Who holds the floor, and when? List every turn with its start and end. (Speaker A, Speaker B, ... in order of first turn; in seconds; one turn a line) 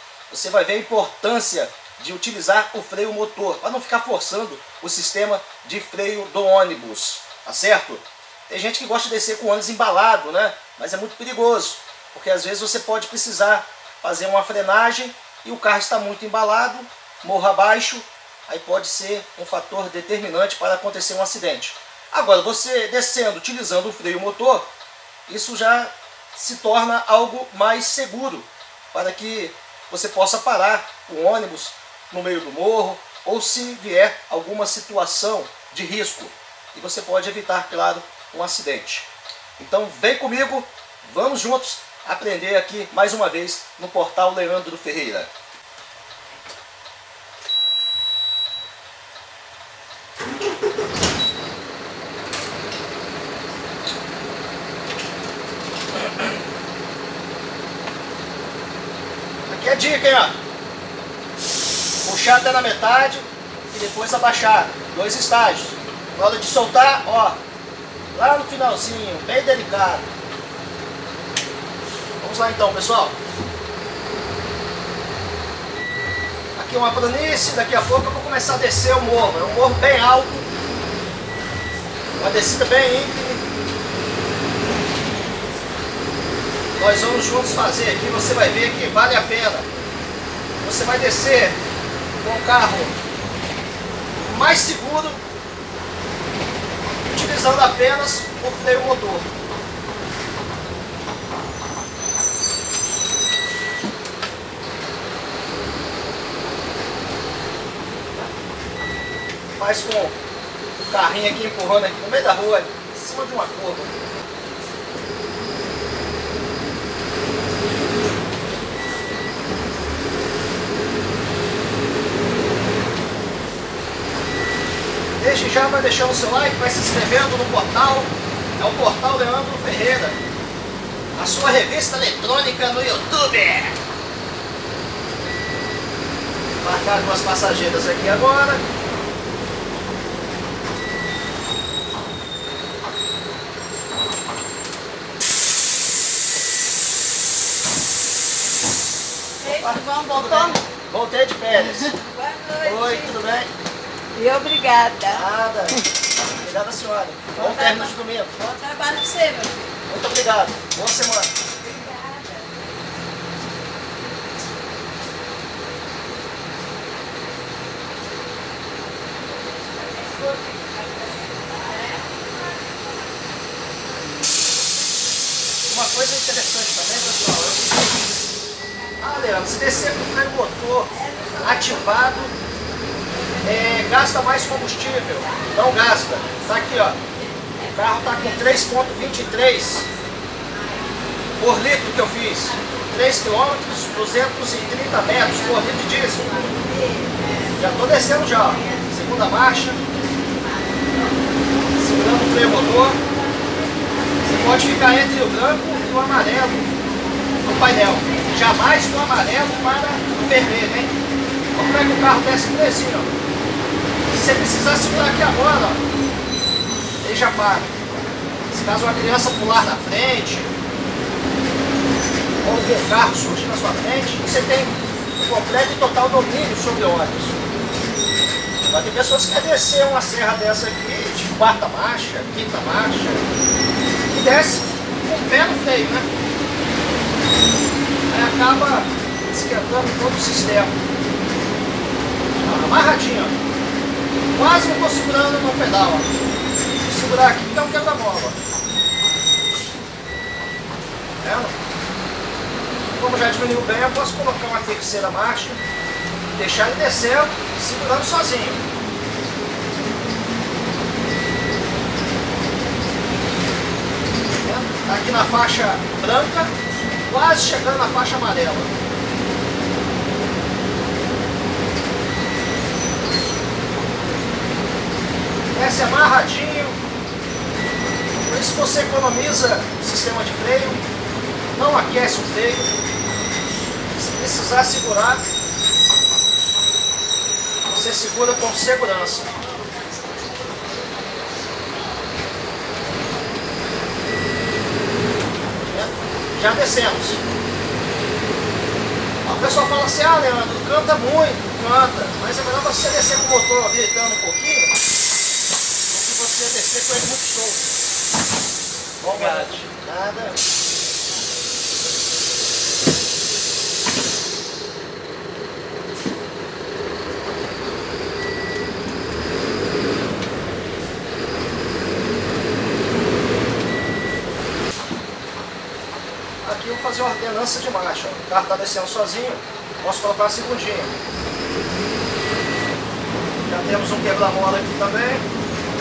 Speaker A: 0.3-24.7
Speaker A: 25.3-45.3
Speaker A: 59.5-60.4
Speaker A: 62.0-67.4
Speaker A: 68.1-70.1
Speaker A: 72.2-73.2
Speaker A: 76.6-80.5
Speaker A: 82.2-83.4
Speaker A: 86.8-89.7
Speaker A: 90.6-91.6
Speaker A: 92.2-92.9
Speaker A: 94.2-95.2
Speaker A: 97.0-99.3
Speaker A: 109.6-110.2
Speaker A: 110.9-113.9
Speaker A: 125.2-130.2
Speaker A: 131.2-133.8
Speaker A: 136.6-138.6
Speaker B: 149.4-150.6
Speaker A: 149.5-152.0
Speaker B: 151.6-153.4
Speaker A: 152.6-153.5
Speaker B: 154.1-155.8
Speaker A: 155.1-155.8
Speaker A: 156.4-158.3
Speaker B: 157.4-159.6
Speaker A: 159.9-161.3
Speaker B: 161.6-162.7
Speaker B: 169.5-175.8
Speaker A: 175.7-178.0
Speaker B: 179.0-179.4
Speaker A: 179.0-182.3
Speaker B: 180.9-182.4
Speaker B: 183.1-184.4
Speaker A: 183.4-187.0
Speaker B: 185.2-189.9
Speaker A: 187.7-189.9
Speaker B: 190.4-191.4
Speaker A: 191.4-196.5
Speaker B: 192.3-204.8
Speaker A: 197.6-199.8
Speaker A: 201.8-203.0
Speaker A: 204.2-206.7
Speaker B: 205.6-210.7
Speaker A: 207.4-210.9
Speaker A: 211.6-213.1
Speaker A: 214.1-215.8
Speaker A: 217.0-217.7
Speaker A: 218.5-220.5
Speaker A: 222.4-227.4
Speaker A: 228.7-233.2
Speaker A: 234.1-236.1
Speaker A: 238.1-240.8
Speaker A: 242.4-243.3
Speaker A: 244.3-246.1
Speaker A: 246.8-248.4
Speaker A: 251.2-251.5
Speaker A: 252.9-255.6
Speaker A: 256.4-258.6
Speaker A: 264.4-266.5
Speaker A: 267.1-268.7
Speaker A: 275.5-276.8
Speaker A: 278.2-280.8
Speaker A: 281.5-282.7
Speaker A: 283.9-285.2
Speaker A: 287.6-289.4
Speaker B: 289.4-291.3
Speaker A: 295.6-297.2
Speaker A: 299.2-304.7
Speaker A: 305.9-307.6
Speaker A: 309.0-310.4
Speaker A: 326.4-331.0
Speaker A: 333.4-335.2